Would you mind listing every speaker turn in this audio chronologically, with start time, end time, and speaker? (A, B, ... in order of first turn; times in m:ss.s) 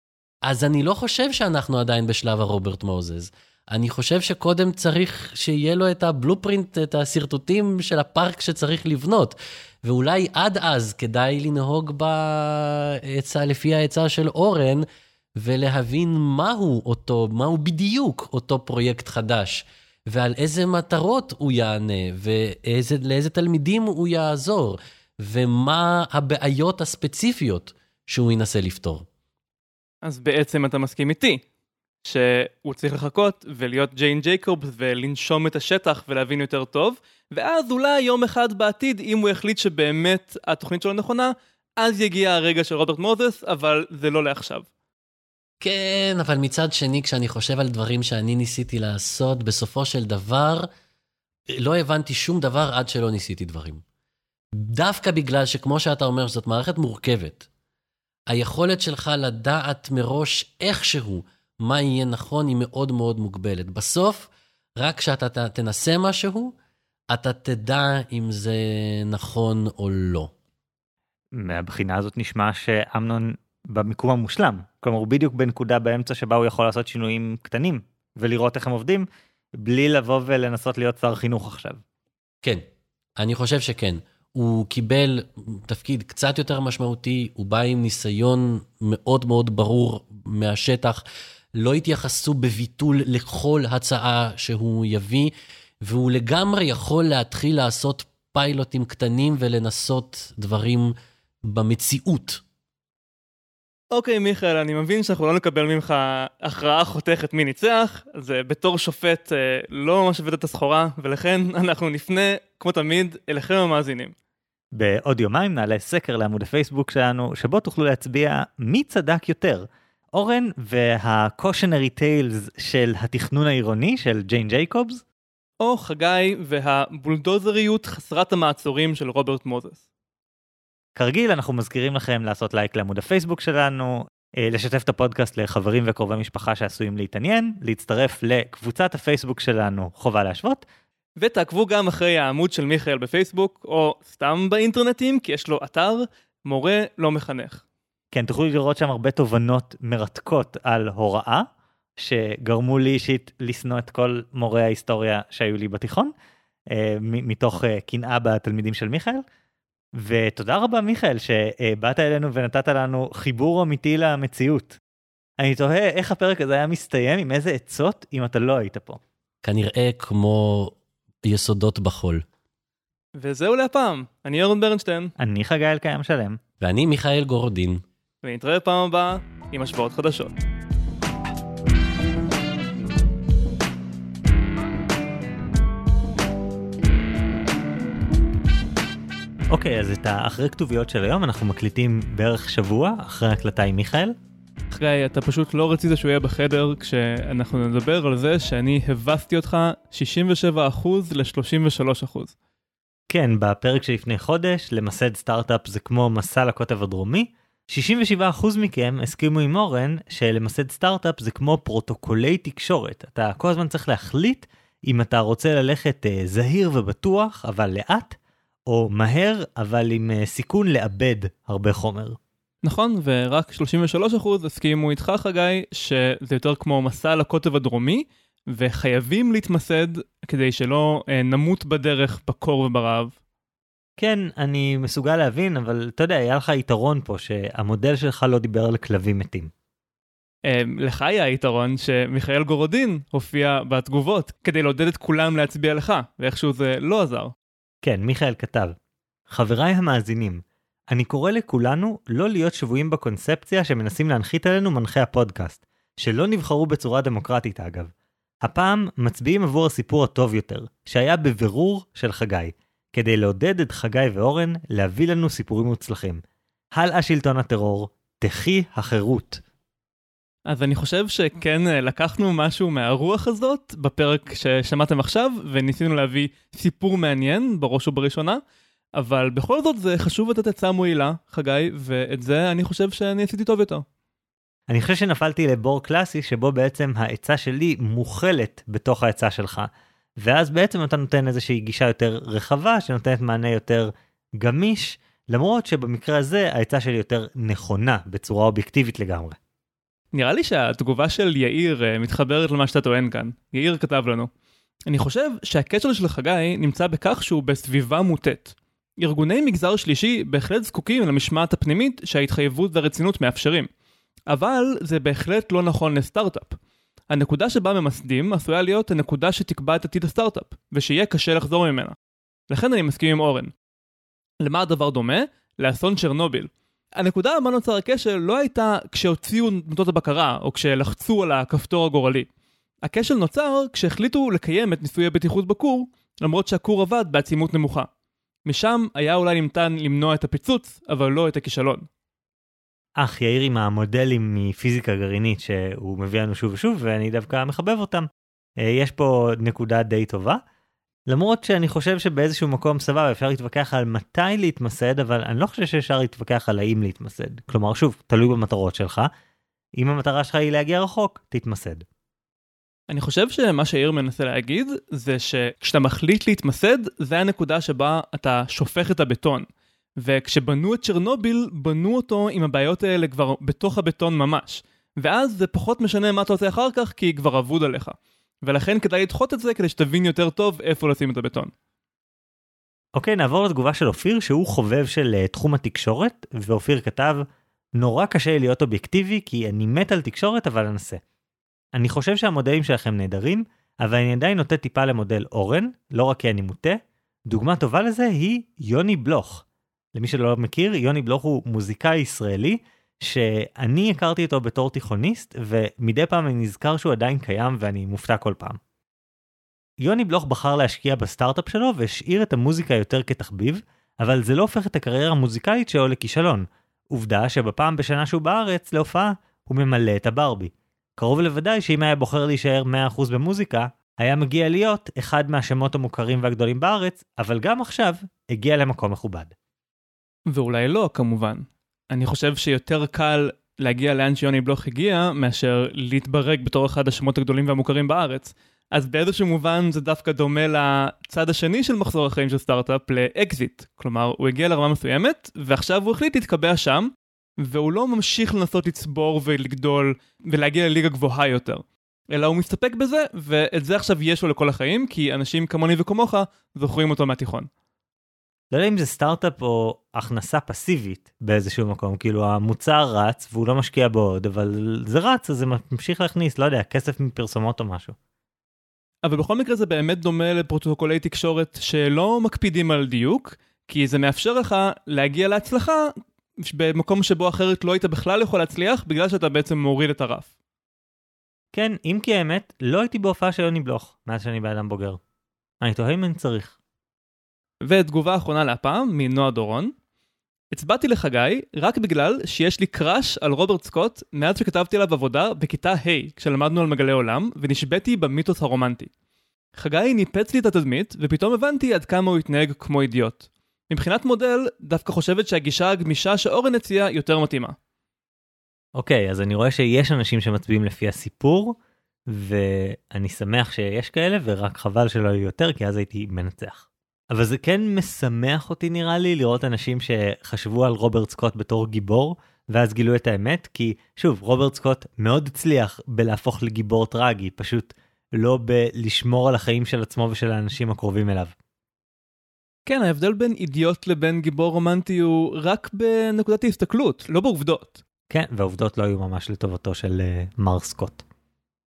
0:00.4-0:29.0 A
0:30.0-0:31.4 B
0:32.0-0:44.7 B
0:45.6-0:50.7 A
0:51.6-0:53.8 A
0:54.5-0:57.5 A
0:58.3-1:06.5 A
1:07.1-1:10.3 A
1:11.3-1:19.0 C
1:19.6-1:21.8 C
1:23.2-1:31.0 A
1:31.5-1:42.4 A
1:43.9-1:54.1 B
1:54.7-2:05.0 C
2:05.6-2:09.8 B
2:11.0-2:20.6 C
2:21.2-2:27.6 B
2:28.1-2:31.4 C
2:32.0-2:36.1 C
2:36.7-2:39.2 C
2:40.0-2:44.8 C
2:45.4-2:49.0 C
2:49.4-2:52.2 A
2:53.2-2:55.1 B
2:55.2-2:56.4 C
2:56.6-2:57.8 A
2:58.2-3:00.3 B
3:09.5-3:14.2 C
3:14.7-3:22.3 B
3:23.1-3:42.2 C
3:42.6-3:53.1 B
3:54.0-3:59.5 C
4:00.4-4:07.3 B
4:07.8-4:08.7 C
4:09.3-4:17.9 C
4:18.4-4:26.2 C
4:26.7-4:29.4 C
4:30.4-4:38.4 B
4:39.0-4:43.8 B
4:44.7-4:49.7 C
4:50.2-4:59.4 C
5:00.1-5:04.3 B
5:04.9-5:13.7 B
5:14.3-5:16.6 B
5:17.1-5:22.0 B
5:22.5-5:23.5 B
5:24.4-5:32.3 B
5:32.8-5:37.9 B
5:38.4-5:41.8 B
5:43.0-5:48.1 C
5:48.6-5:50.4 C
5:51.1-5:59.1 C
5:59.8-6:01.8 C
6:02.9-6:09.5 B
6:10.0-6:21.5 B
6:23.0-6:27.2 C
6:27.8-6:31.0 C
6:31.7-6:48.6 C
6:49.8-7:09.3 C
7:10.3-7:37.5 B
7:38.5-7:48.0 C
7:49.0-8:00.3 B
8:01.5-8:05.0 C
8:05.6-8:06.5 C
8:07.6-8:09.7 B
8:10.5-8:18.9 B
8:19.6-8:27.6 B
8:28.8-8:31.6 C
8:32.1-8:51.3 C
8:52.6-8:57.8 B
8:58.1-9:01.0 C